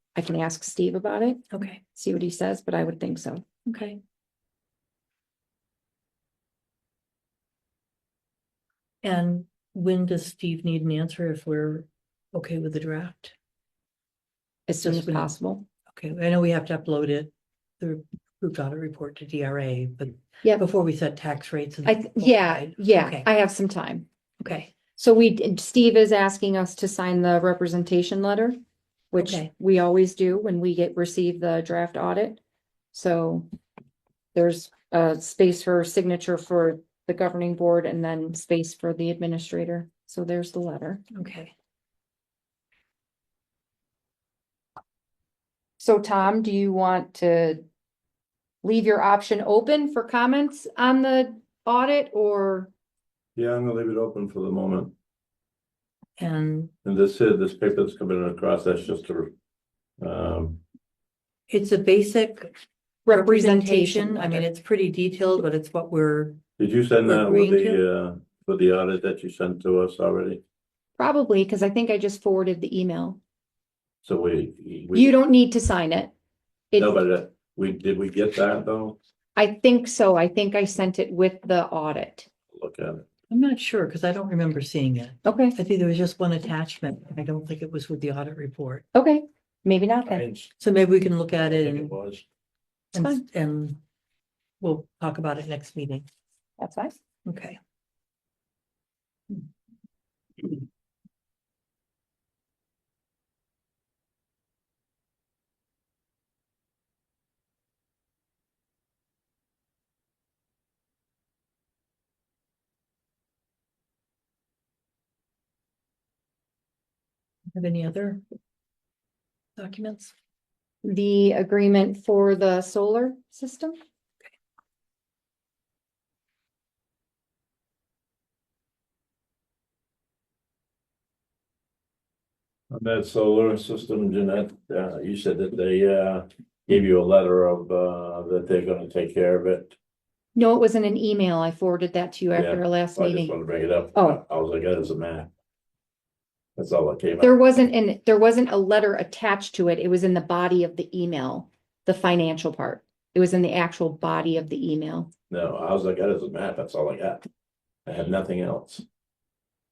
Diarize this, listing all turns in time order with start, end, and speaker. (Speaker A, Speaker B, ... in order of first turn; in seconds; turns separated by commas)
Speaker A: 0.1-3.5, Speaker B: 1.5-1.8, Speaker B: 3.6-4.0, Speaker B: 9.0-13.3, Speaker A: 14.7-15.7, Speaker B: 14.8-15.3, Speaker B: 15.9-23.2, Speaker A: 21.8-24.1, Speaker B: 24.4-24.7, Speaker A: 24.9-28.6, Speaker A: 29.1-32.4, Speaker B: 29.2-29.5, Speaker A: 32.9-33.5, Speaker A: 34.3-41.0, Speaker B: 41.1-41.5, Speaker A: 45.8-47.6, Speaker A: 48.6-52.7, Speaker C: 53.4-54.9, Speaker B: 56.2-56.7, Speaker C: 56.8-59.3, Speaker C: 60.0-60.6, Speaker B: 61.5-62.5, Speaker A: 63.0-64.5, Speaker B: 63.1-66.4, Speaker C: 66.6-70.4, Speaker B: 67.0-67.8, Speaker A: 71.0-73.2, Speaker C: 74.0-75.1, Speaker A: 74.9-76.1, Speaker A: 76.7-77.0, Speaker C: 76.8-79.0, Speaker A: 79.3-82.3, Speaker C: 82.5-83.1, Speaker B: 83.3-88.8, Speaker A: 85.2-85.6, Speaker A: 88.9-90.2, Speaker C: 90.0-90.5, Speaker B: 90.6-91.9, Speaker C: 91.5-92.2, Speaker B: 92.9-93.8, Speaker A: 93.0-93.2, Speaker B: 94.6-96.1, Speaker A: 96.6-96.9, Speaker B: 97.2-97.6, Speaker B: 117.5-118.2, Speaker B: 119.6-120.1, Speaker A: 120.8-123.8, Speaker C: 132.7-139.8, Speaker A: 140.3-143.3, Speaker C: 142.3-145.3, Speaker C: 146.6-147.4, Speaker A: 147.2-155.1, Speaker C: 155.3-157.3, Speaker C: 157.8-158.8